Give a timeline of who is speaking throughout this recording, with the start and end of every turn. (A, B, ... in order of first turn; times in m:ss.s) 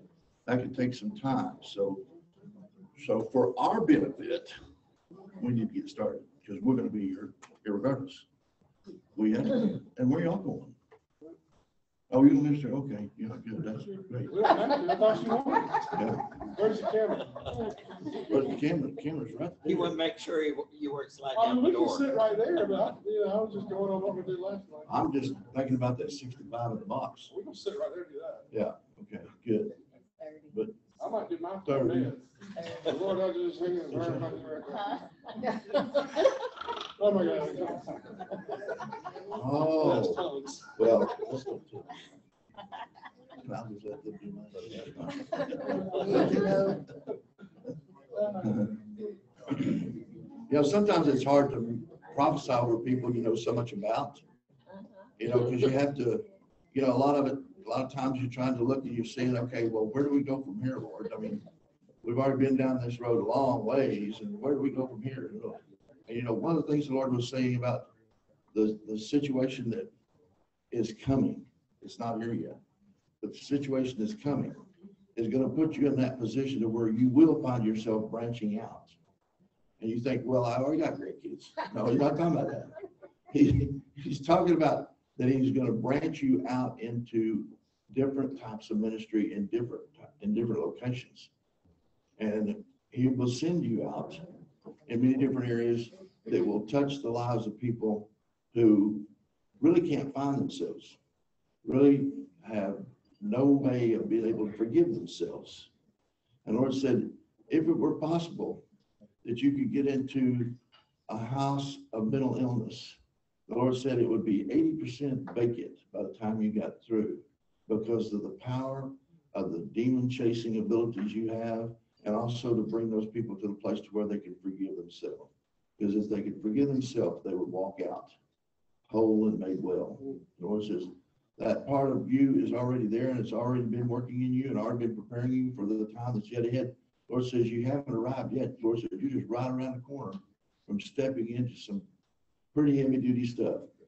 0:00.4-0:02.0 A
0:03.0-0:04.6 A
0:05.4-0:08.3 A
0:09.1-0:10.8 A
0:12.1-0:14.5 A
0:14.3-0:15.9 B
0:15.9-0:16.4 A
0:16.5-0:17.5 B
0:18.2-0:20.0 A
0:19.6-0:22.1 C
0:21.3-0:24.9 B
0:24.9-0:27.3 A
0:27.3-0:28.4 B
0:28.5-0:29.8 A
0:30.5-0:30.8 A
0:31.0-0:35.0 B
0:31.6-0:32.2 A
0:33.9-0:34.4 A
0:35.7-0:36.0 B
0:37.0-0:38.5 B
0:39.3-0:42.1 A
0:39.8-0:40.7 B
0:43.4-0:46.7 A
0:45.9-0:46.8 B
0:48.4-0:48.7 A
0:49.5-0:49.9 A
0:50.5-0:54.2 A
0:55.2-1:01.4 A
1:02.0-1:07.9 A
1:08.5-1:09.9 A
1:10.7-1:12.6 A
1:13.2-1:14.6 A
1:15.2-1:19.0 A
1:19.8-1:22.7 A
1:23.3-1:31.3 A
1:32.2-1:34.2 A
1:34.8-1:39.1 A
1:39.6-1:41.0 A
1:41.6-1:45.7 A
1:46.4-1:48.6 A
1:49.2-1:50.5 A
1:51.1-2:08.1 A
2:08.9-2:21.8 A
2:22.5-2:23.7 A